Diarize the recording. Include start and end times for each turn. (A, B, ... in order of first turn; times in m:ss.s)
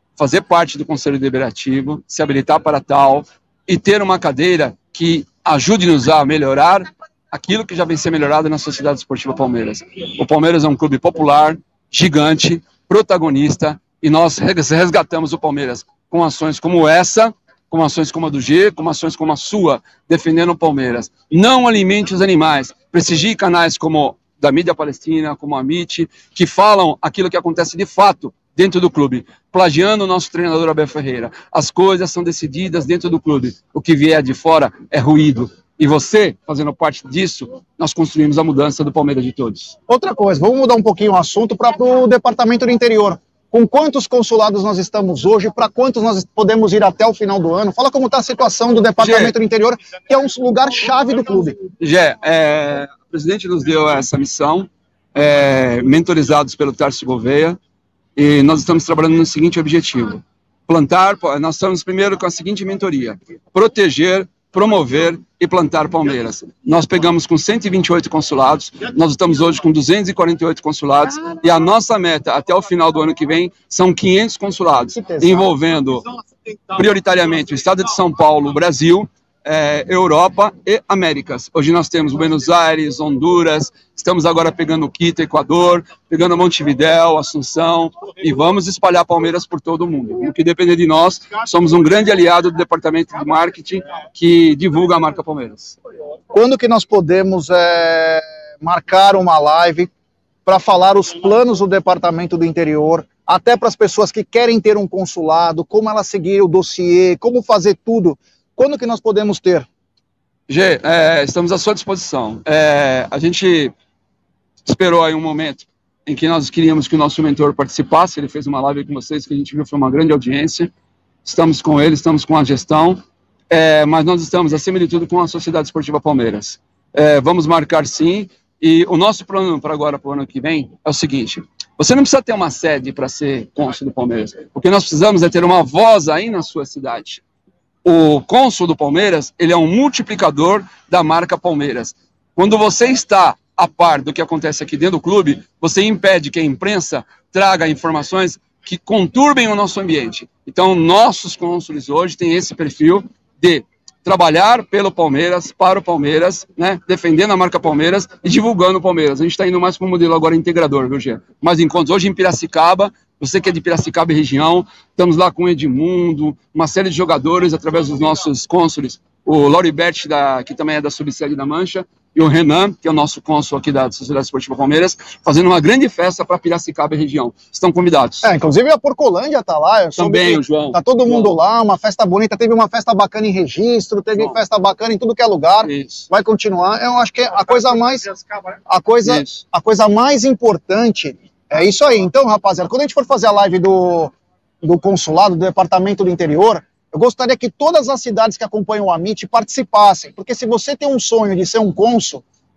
0:00.2-0:39.8 A
0:39.9-0:51.6 B
0:49.0-0:49.3 A
0:51.8-0:57.6 A
0:58.2-1:16.0 A
1:14.9-1:15.6 B
1:16.7-1:35.8 A
1:36.3-1:39.9 B
1:40.4-1:49.6 B
1:50.5-1:53.7 A
1:54.6-2:00.7 A
2:01.2-2:17.2 A
2:17.8-2:58.3 A
2:58.2-3:08.1 B
3:00.0-3:01.4 A
3:05.6-3:06.1 A
3:08.7-3:22.2 B
3:09.0-3:09.4 A